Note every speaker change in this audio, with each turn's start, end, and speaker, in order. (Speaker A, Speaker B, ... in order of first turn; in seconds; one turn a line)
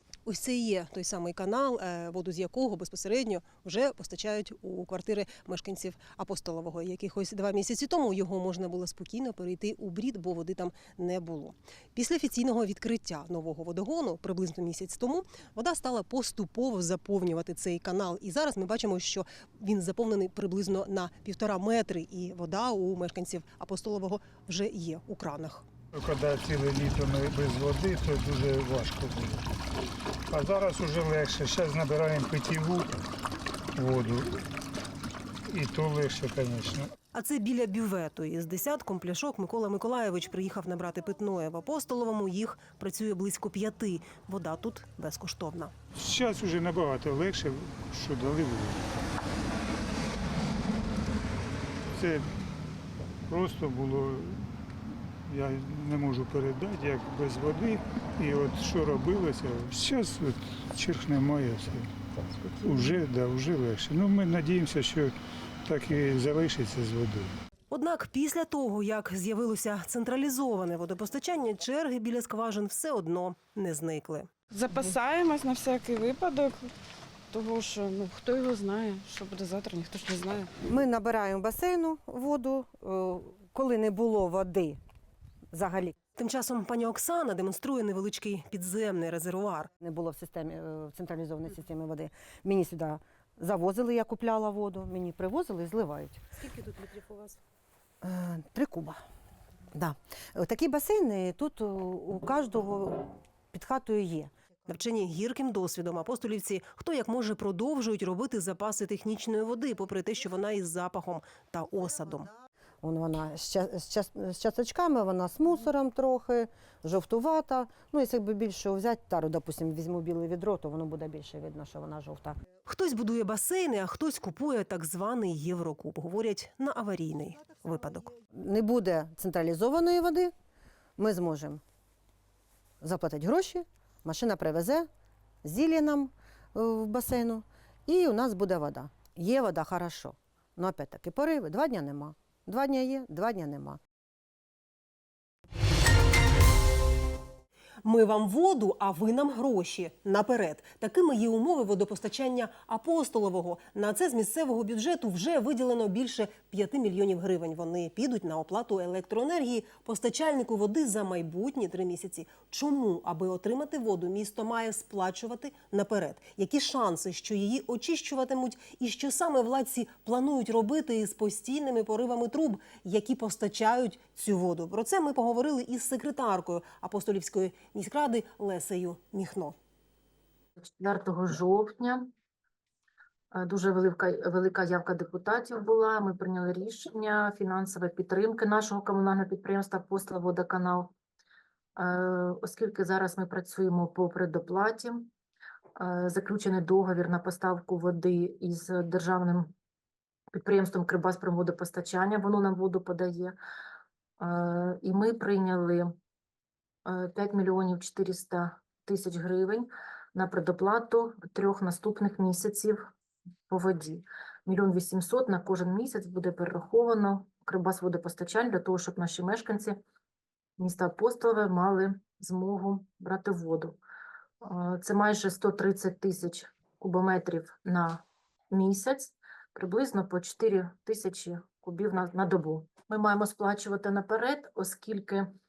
Speaker A: 0.2-25.7
Speaker B: 25.9-29.5
Speaker B: 30.3-32.9
Speaker B: 33.8-34.4
Speaker B: 35.5-36.9
Speaker A: 37.1-45.7
Speaker B: 45.9-49.0
Speaker B: 51.9-52.3
Speaker B: 53.3-67.3
Speaker A: 67.7-74.3
Speaker C: 74.5-76.7
Speaker C: 77.3-80.5
Speaker D: 80.6-84.8
Speaker D: 85.5-85.9
Speaker A: 86.1-89.7
Speaker D: 89.8-96.5
Speaker C: 96.6-97.2
Speaker D: 98.0-99.0
Speaker D: 99.7-104.3
Speaker A: 104.7-112.3
Speaker D: 112.8-122.3
Speaker A: 122.7-128.1
Speaker D: 128.4-130.3
Speaker D: 131.0-131.6
Speaker D: 132.8-134.9
Speaker D: 135.4-143.8
Speaker A: 147.8-179.6
Speaker E: 180.6-182.1
Speaker E: 183.3-190.9
Speaker E: 191.8-195.1
Speaker E: 195.8-199.5
Speaker E: 200.3-203.3
Speaker E: 204.2-205.9
Speaker E: 206.8-212.8
Speaker E: 213.5-219.8
Speaker E: 220.6-223.8
Speaker E: 224.4-235.3